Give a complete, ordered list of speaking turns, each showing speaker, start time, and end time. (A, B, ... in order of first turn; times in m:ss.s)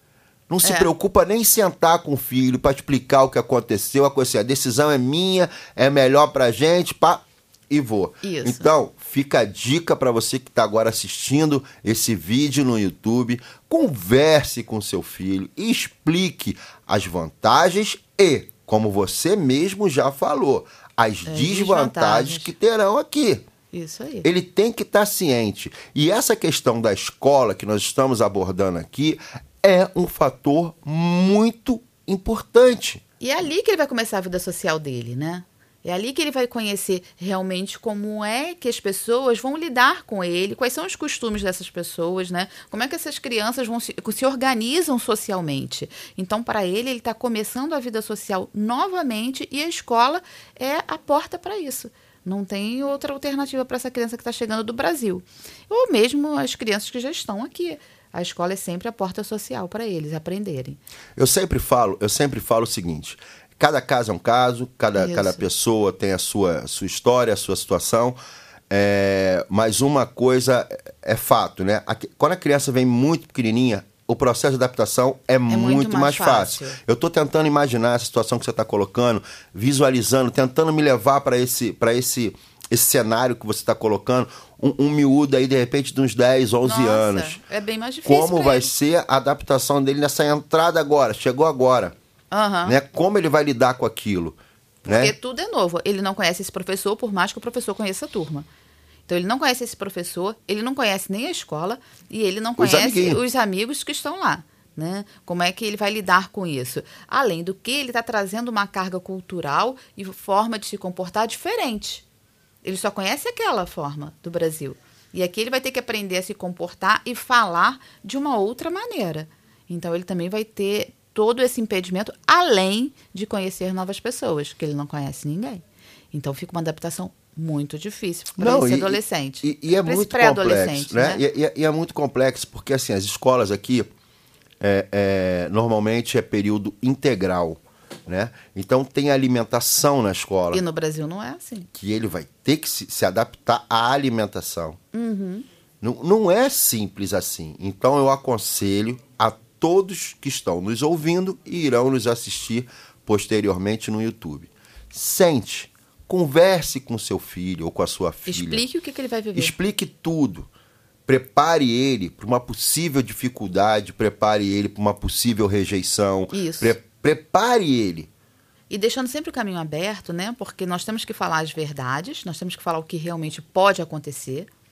0:00.5-0:23.5 A
0:00.6-0:00.9 B
0:08.2-0:08.7 B
0:21.3-0:22.5 B
0:23.7-0:24.3 B
0:24.2-0:33.0 A
0:33.2-1:00.8 B
1:01.2-1:08.2 A
1:05.0-1:05.4 B
1:08.7-1:27.4 A
1:15.5-1:16.8 B
1:26.6-1:28.7 B
1:28.0-1:32.0 A
1:32.3-1:32.8 B
1:32.6-1:35.2 A
1:34.9-1:38.5 B
1:39.1-1:52.0 B
1:42.6-1:43.2 A
1:52.6-2:11.2 B
2:08.4-2:13.9 A
2:14.6-2:20.6 A
2:20.5-2:21.7 B
2:21.7-2:24.8 A
2:24.9-2:25.5 B
2:25.8-2:38.7 A
2:38.3-2:39.5 B
2:39.4-2:40.5 A
2:41.1-2:48.1 A
2:46.3-2:46.8 B
2:48.7-2:54.5 B